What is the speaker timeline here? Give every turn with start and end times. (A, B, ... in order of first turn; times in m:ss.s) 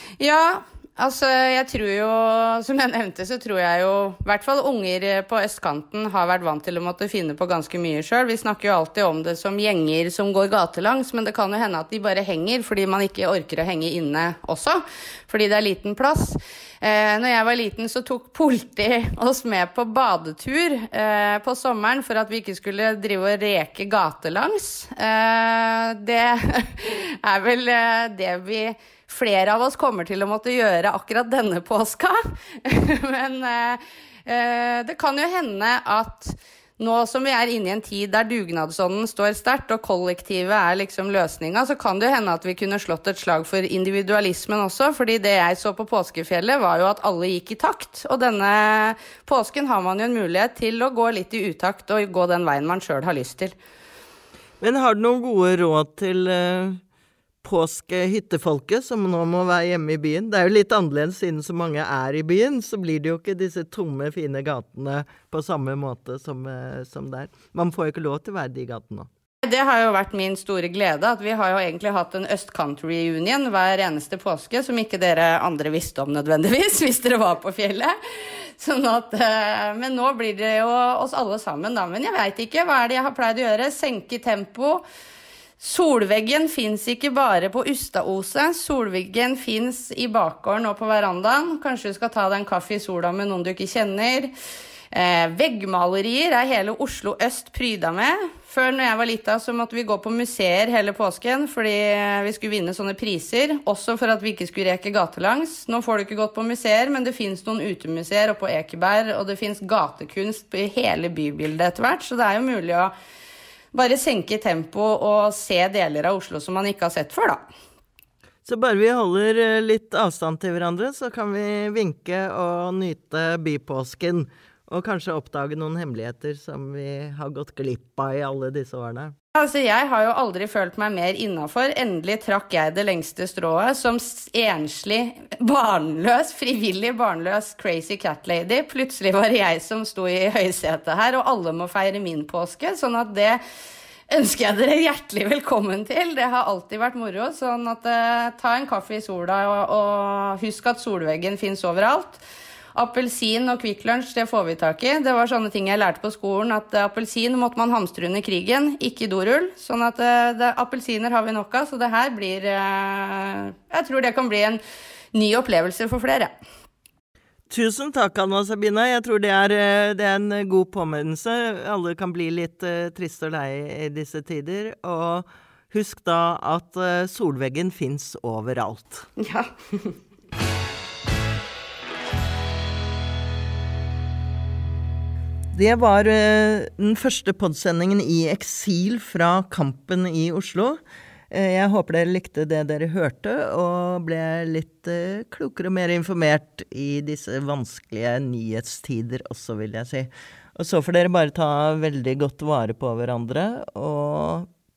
0:00.2-0:53.6 A
0:54.6-0:56.8 B
0:57.4-1:09.1 B
1:09.4-1:24.8 A
1:25.6-1:34.3 A
1:34.9-1:52.9 A
1:53.7-1:57.4 A
1:58.4-2:09.2 B
2:09.4-2:23.4 A
2:24.1-2:32.2 A
2:32.8-2:44.6 A
2:45.1-2:46.3 A
2:47.5-2:59.1 B
2:59.2-2:59.9 A
3:05.5-3:10.8 B
3:11.3-3:24.5 B